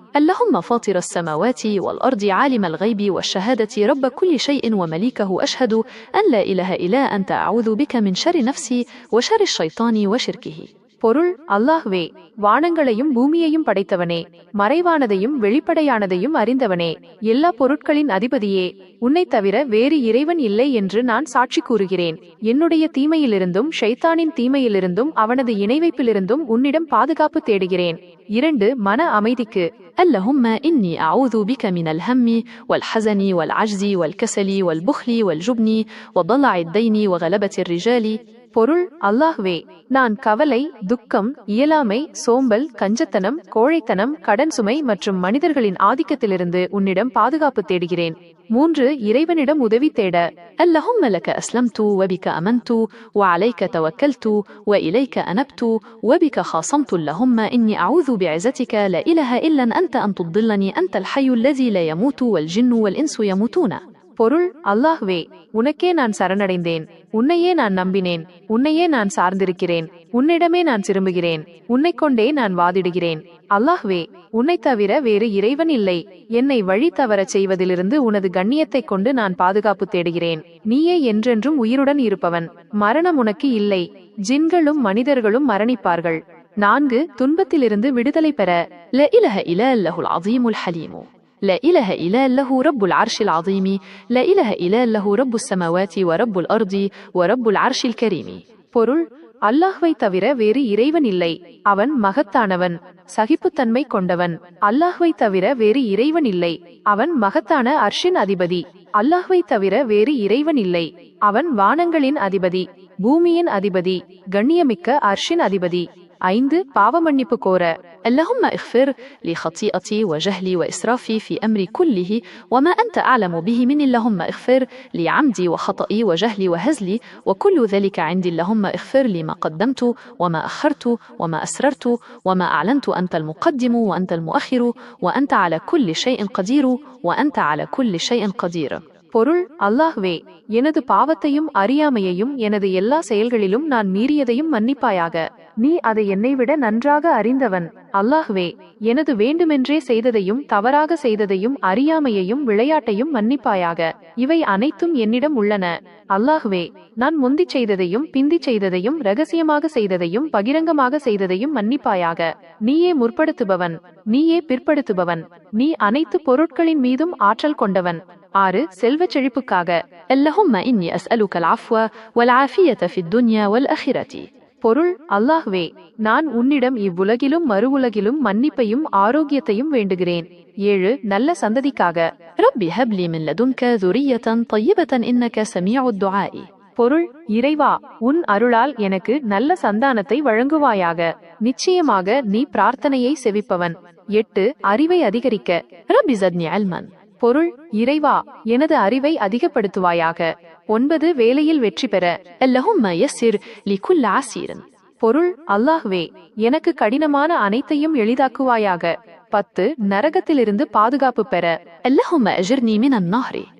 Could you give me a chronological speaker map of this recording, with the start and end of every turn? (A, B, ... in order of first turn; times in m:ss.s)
0:00.2-0:10.7 A
0:11.0-0:29.7 B
0:30.0-0:38.2 A
0:38.6-0:50.2 B
0:50.6-1:03.8 A
1:04.2-1:28.6 B
1:29.0-1:38.4 A
1:38.7-1:57.7 B
1:58.1-2:18.8 A
2:19.1-2:49.8 B
2:50.1-2:54.2 A
2:54.6-3:02.0 B
3:02.4-3:06.5 A
3:06.8-3:15.6 B
3:15.9-3:16.9 A
3:17.2-3:22.1 B
3:22.4-3:24.6 A
3:25.0-3:31.5 B
3:31.9-3:33.5 A